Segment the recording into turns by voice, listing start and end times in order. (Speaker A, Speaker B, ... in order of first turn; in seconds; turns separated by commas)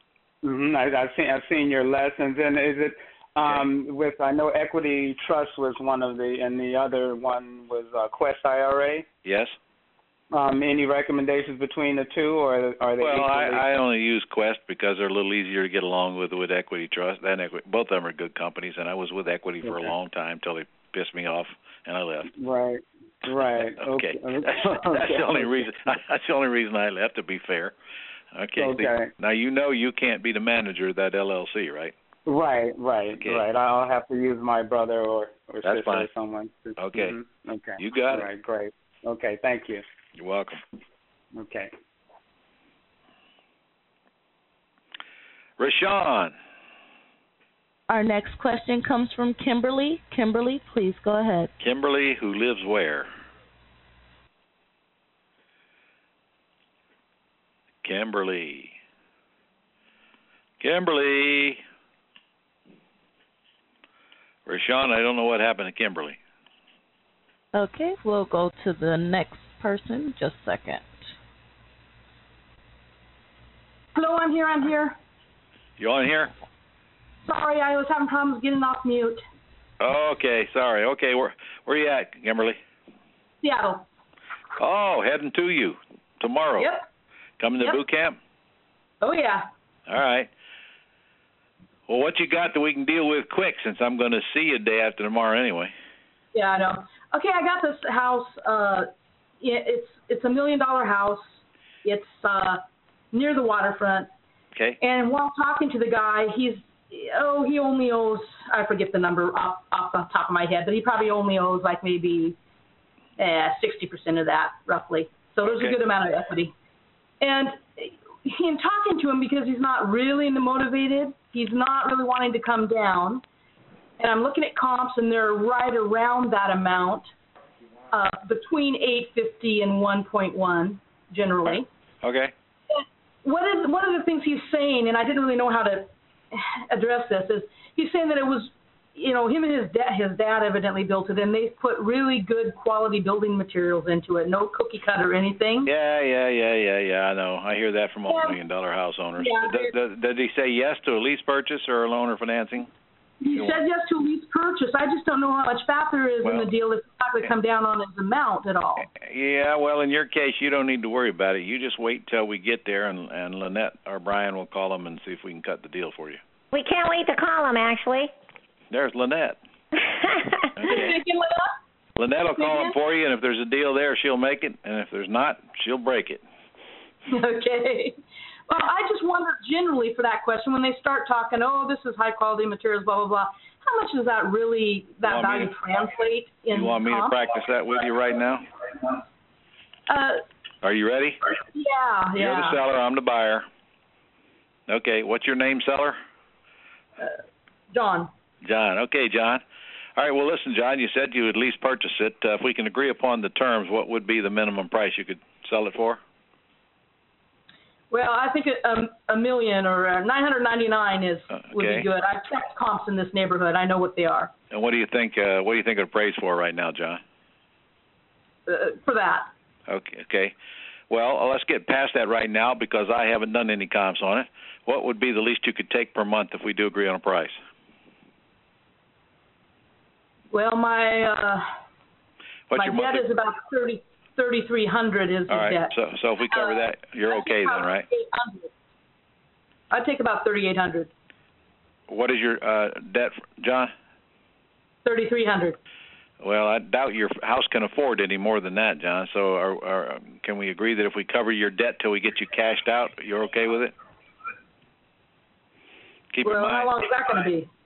Speaker A: 0.4-9.1, Speaker B: 9.2-9.5, Speaker A: 10.3-13.6, Speaker B: 13.0-22.3, Speaker A: 19.6-19.9, Speaker A: 22.4-25.6, Speaker B: 23.5-27.7, Speaker B: 28.3-31.9, Speaker A: 28.6-29.1, Speaker A: 32.2-39.8, Speaker B: 33.2-33.4, Speaker B: 35.6-36.1, Speaker B: 36.8-37.1, Speaker B: 37.8-38.3, Speaker B: 40.2-40.6, Speaker A: 41.4-41.7, Speaker B: 45.6-46.3, Speaker C: 47.9-51.5, Speaker B: 51.6-53.1, Speaker B: 57.8-58.7, Speaker B: 60.6-61.6, Speaker B: 64.5-66.2, Speaker C: 67.5-71.0, Speaker D: 73.9-75.0, Speaker B: 75.8-76.3, Speaker D: 77.2-79.2, Speaker B: 79.8-82.6, Speaker D: 83.4-83.8, Speaker B: 84.6-86.7, Speaker D: 86.6-86.8, Speaker B: 87.4-88.2, Speaker D: 89.0-89.4, Speaker B: 89.9-90.3, Speaker B: 91.9-95.7, Speaker D: 96.3-98.9, Speaker D: 99.4-102.6, Speaker D: 103.1-104.1, Speaker D: 104.8-112.4, Speaker D: 113.2-116.5, Speaker B: 115.4-115.8, Speaker D: 117.2-123.2, Speaker D: 124.0-127.1, Speaker D: 127.9-131.7, Speaker B: 131.4-132.3, Speaker D: 132.7-145.7, Speaker B: 145.6-152.7, Speaker D: 148.1-148.4, Speaker D: 149.2-149.7, Speaker D: 153.2-158.9, Speaker B: 153.3-153.6, Speaker B: 156.2-156.5, Speaker B: 158.8-166.2, Speaker E: 166.5-168.1, Speaker B: 168.7-169.4, Speaker E: 170.0-170.5, Speaker B: 170.6-170.9, Speaker D: 170.6-171.5, Speaker B: 172.0-176.2, Speaker D: 172.4-172.7, Speaker D: 177.1-177.9, Speaker D: 178.5-187.2, Speaker B: 185.0-185.5, Speaker B: 186.5-188.4, Speaker D: 189.9-190.2, Speaker B: 190.6-191.2, Speaker D: 191.5-192.6, Speaker B: 192.1-193.4, Speaker B: 194.7-196.0, Speaker D: 197.7-198.1, Speaker B: 198.4-199.4, Speaker B: 199.9-206.0, Speaker D: 207.9-214.3, Speaker B: 211.3-211.9, Speaker B: 214.5-217.0, Speaker D: 218.5-219.3, Speaker B: 219.7-220.3, Speaker B: 220.9-227.4, Speaker D: 230.3-231.4, Speaker B: 232.5-233.1, Speaker D: 232.5-235.7, Speaker B: 235.3-237.8, Speaker D: 236.3-238.5, Speaker D: 239.7-240.9, Speaker B: 241.9-243.7, Speaker D: 244.8-245.6, Speaker B: 246.2-253.7, Speaker B: 256.1-256.7, Speaker D: 256.2-257.5